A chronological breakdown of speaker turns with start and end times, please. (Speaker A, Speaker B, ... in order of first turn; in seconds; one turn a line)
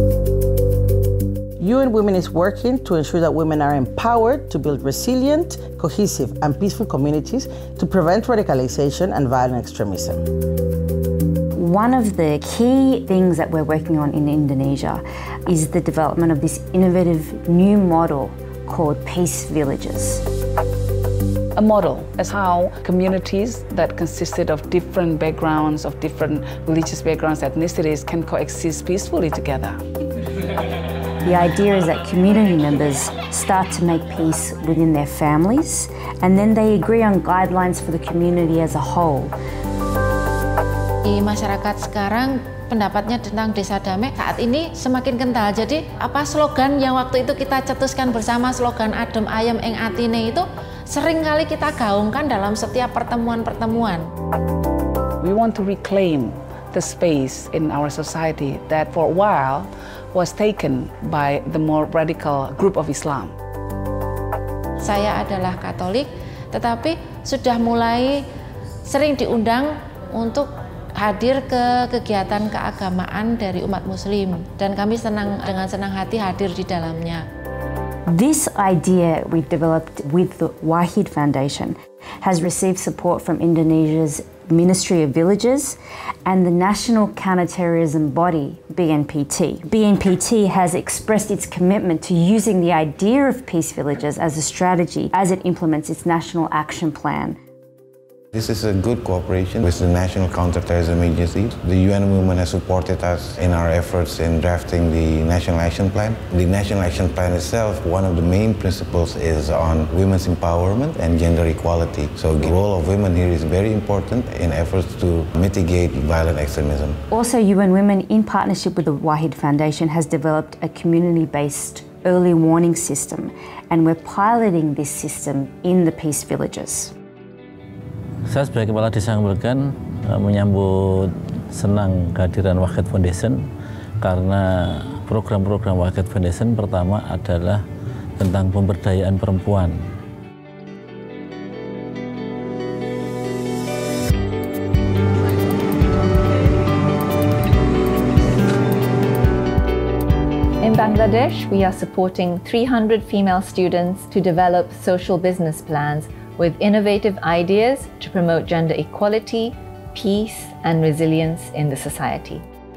Speaker A: 1.6-10.2
Speaker B: 11.6-20.2
Speaker C: 21.6-29.8
Speaker B: 31.2-39.3
Speaker D: 41.0-54.1
Speaker C: 55.2-63.4
Speaker D: 64.8-68.2
Speaker D: 68.9-77.2
Speaker B: 78.1-97.4
Speaker E: 98.3-117.0
Speaker B: 117.1-126.9
Speaker F: 128.3-133.4
Speaker F: 134.0-137.6
Speaker F: 138.2-139.7
Speaker G: 150.6-162.4